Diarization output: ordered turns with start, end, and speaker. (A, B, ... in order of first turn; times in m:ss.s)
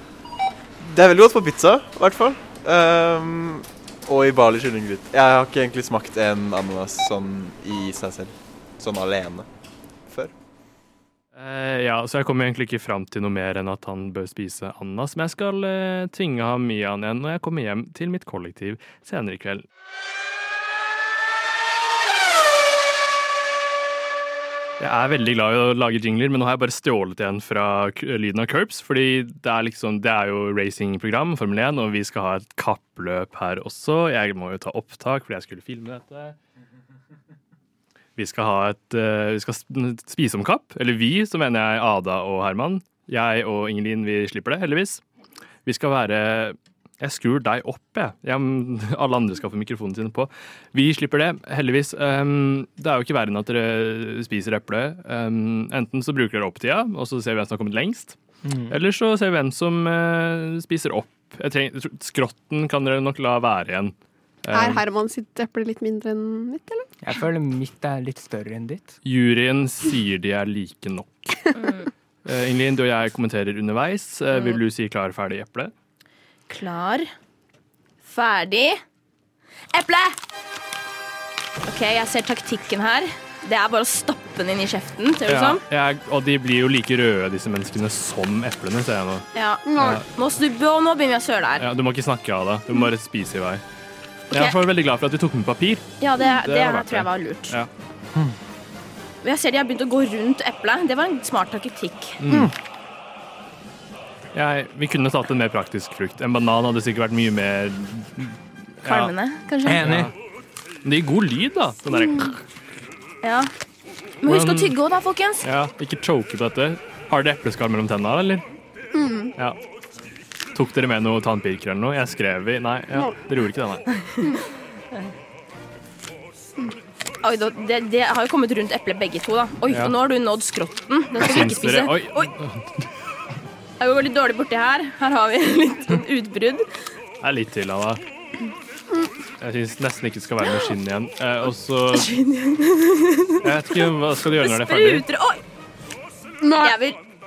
0:00.8-0:09.5 A
0:10.1-0:10.3 A
0:11.4-0:19.6 B
0:24.8-0:36.4 B
0:38.2-0:45.0 B
0:45.6-0:58.2 B
0:58.4-0:58.8 C
0:58.7-1:04.8 B
1:04.5-1:06.9 D
1:07.0-1:08.9 C
1:09.0-1:11.5 B
1:11.5-1:11.9 E
1:12.2-1:15.7 B
1:14.3-1:14.6 E
1:16.5-1:17.1 E
1:18.0-1:18.8 E
1:19.7-1:20.2 E
1:21.6-1:25.6 E
1:25.3-1:29.3 B
1:29.3-1:31.6 E
1:29.6-1:30.0 D
1:29.8-1:30.0 B
1:31.6-1:33.6 B
1:34.3-1:34.6 E
1:34.3-1:37.7 B
1:36.0-1:37.6 E
1:39.2-1:42.2 E
1:42.2-1:42.5 B
1:42.3-1:42.5 C
1:44.3-1:49.1 B
1:48.8-1:49.9 E
1:49.6-1:50.1 C
1:49.7-1:50.1 B
1:50.8-1:52.4 B
1:52.0-1:52.3 D
1:53.2-1:53.5 E
1:54.2-1:55.4 E
1:54.2-1:54.7 B
1:55.4-1:58.4 B
1:58.9-1:59.3 D
2:00.5-2:03.9 B
2:03.9-2:04.3 E
2:07.2-2:12.3 E
2:11.2-2:12.8 B
2:13.8-2:16.6 E
2:17.2-2:18.0 B
2:19.4-2:22.1 B
2:21.9-2:25.4 E
2:23.4-2:25.0 B
2:26.4-2:26.7 D
2:26.6-2:27.0 E